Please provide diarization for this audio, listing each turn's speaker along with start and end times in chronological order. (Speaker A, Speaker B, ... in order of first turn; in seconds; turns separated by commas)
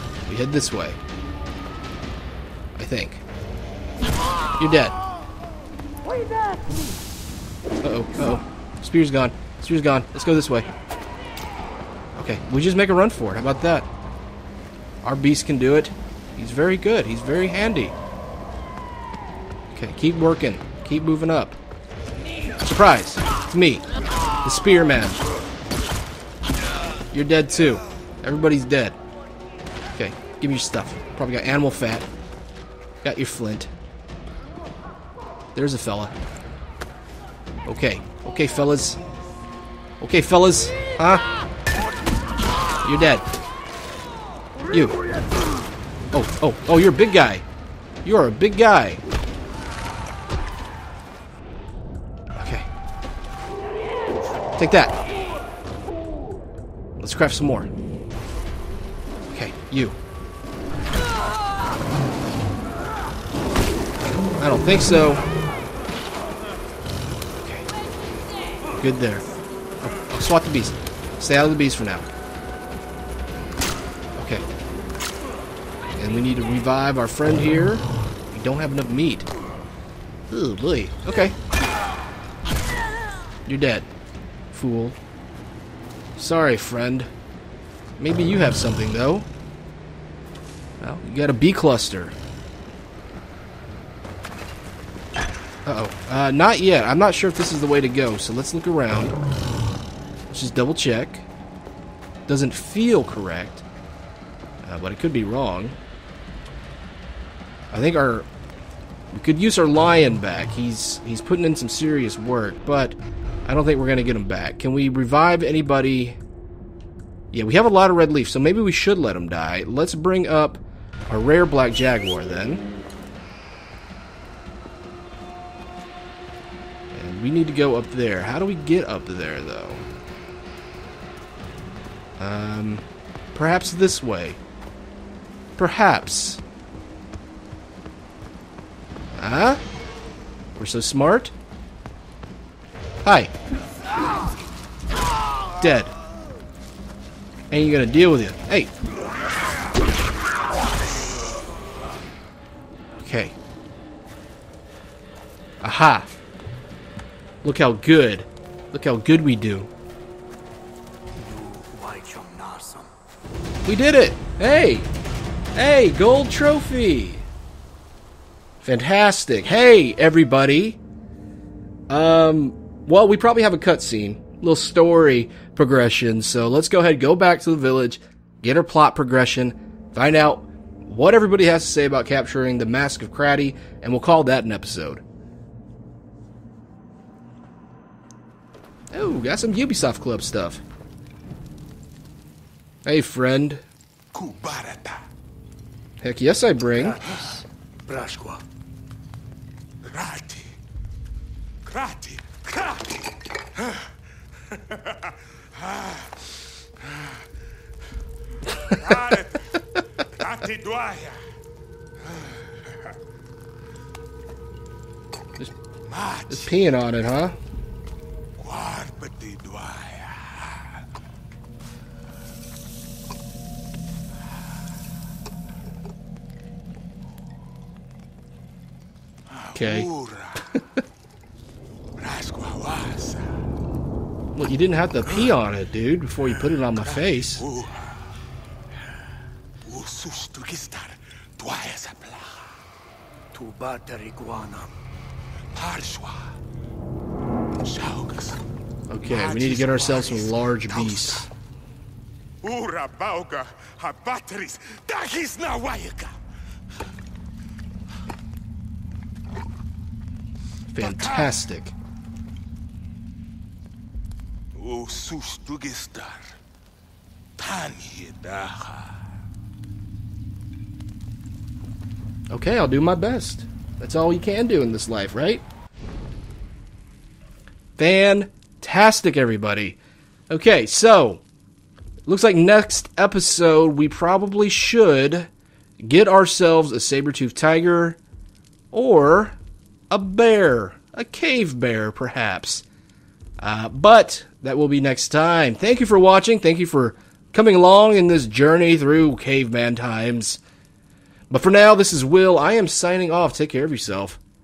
Speaker A: 0.3-1.0, Speaker A: 2.8-3.2, Speaker A: 4.6-5.0, Speaker A: 7.8-10.7, Speaker A: 12.2-13.9, Speaker A: 15.0-17.9, Speaker A: 19.7-21.6, Speaker A: 22.6-23.9, Speaker A: 24.4-25.2, Speaker A: 27.1-29.0, Speaker A: 29.9-32.1, Speaker A: 33.0-33.7, Speaker A: 35.5-36.1, Speaker A: 37.7-39.0, Speaker A: 40.0-41.2, Speaker A: 42.8-43.2, Speaker A: 44.7-45.0, Speaker A: 46.1-47.5, Speaker A: 48.0-49.0, Speaker A: 52.4-52.7, Speaker A: 54.6-55.0, Speaker A: 57.0-57.7, Speaker A: 59.3-60.0, Speaker A: 64.4-65.2, Speaker A: 67.4-67.7, Speaker A: 68.7-69.3, Speaker A: 69.8-72.1, Speaker A: 74.2-74.5, Speaker A: 76.0-79.3, Speaker A: 80.3-81.4, Speaker A: 83.5-83.9, Speaker A: 84.5-85.0, Speaker A: 86.2-87.1, Speaker A: 88.0-89.3, Speaker A: 90.8-92.2, Speaker A: 95.7-99.2, Speaker A: 100.3-101.3, Speaker A: 102.3-103.6, Speaker A: 104.6-105.8, Speaker A: 107.7-108.3, Speaker A: 109.1-116.2, Speaker A: 117.3-122.6, Speaker A: 126.9-129.8, Speaker A: 132.2-134.4, Speaker A: 135.6-136.4, Speaker A: 139.2-139.6, Speaker A: 140.6-141.3, Speaker A: 143.0-143.3, Speaker A: 145.6-145.9, Speaker A: 147.5-148.7, Speaker A: 153.0-153.4, Speaker A: 155.6-156.1, Speaker A: 157.4-159.7, Speaker B: 161.2-162.9, Speaker A: 163.7-164.9, Speaker A: 165.6-167.3, Speaker A: 168.6-170.8, Speaker A: 171.9-185.0, Speaker A: 188.9-190.6, Speaker A: 192.8-193.6, Speaker C: 194.1-195.1, Speaker A: 196.0-197.0, Speaker B: 197.0-198.4, Speaker C: 199.8-200.6, Speaker C: 201.7-207.3, Speaker C: 208.4-211.3, Speaker C: 212.0-212.9, Speaker C: 215.8-216.6, Speaker A: 216.3-217.4, Speaker C: 218.4-220.9, Speaker C: 229.3-230.6, Speaker A: 229.6-229.9, Speaker C: 232.0-233.3, Speaker A: 234.3-237.4, Speaker C: 236.4-238.1, Speaker C: 239.7-242.6, Speaker B: 243.3-244.7, Speaker C: 245.5-246.4, Speaker C: 247.6-248.4, Speaker A: 248.9-251.3, Speaker C: 249.1-251.0, Speaker C: 252.4-256.2, Speaker A: 260.7-261.8, Speaker C: 260.8-261.4, Speaker C: 264.6-266.4, Speaker C: 267.4-269.1, Speaker A: 272.3-275.4, Speaker A: 277.8-279.8, Speaker A: 280.3-281.2, Speaker A: 282.1-288.0, Speaker A: 288.7-289.4, Speaker A: 289.9-292.6, Speaker A: 293.4-300.4, Speaker A: 301.3-304.2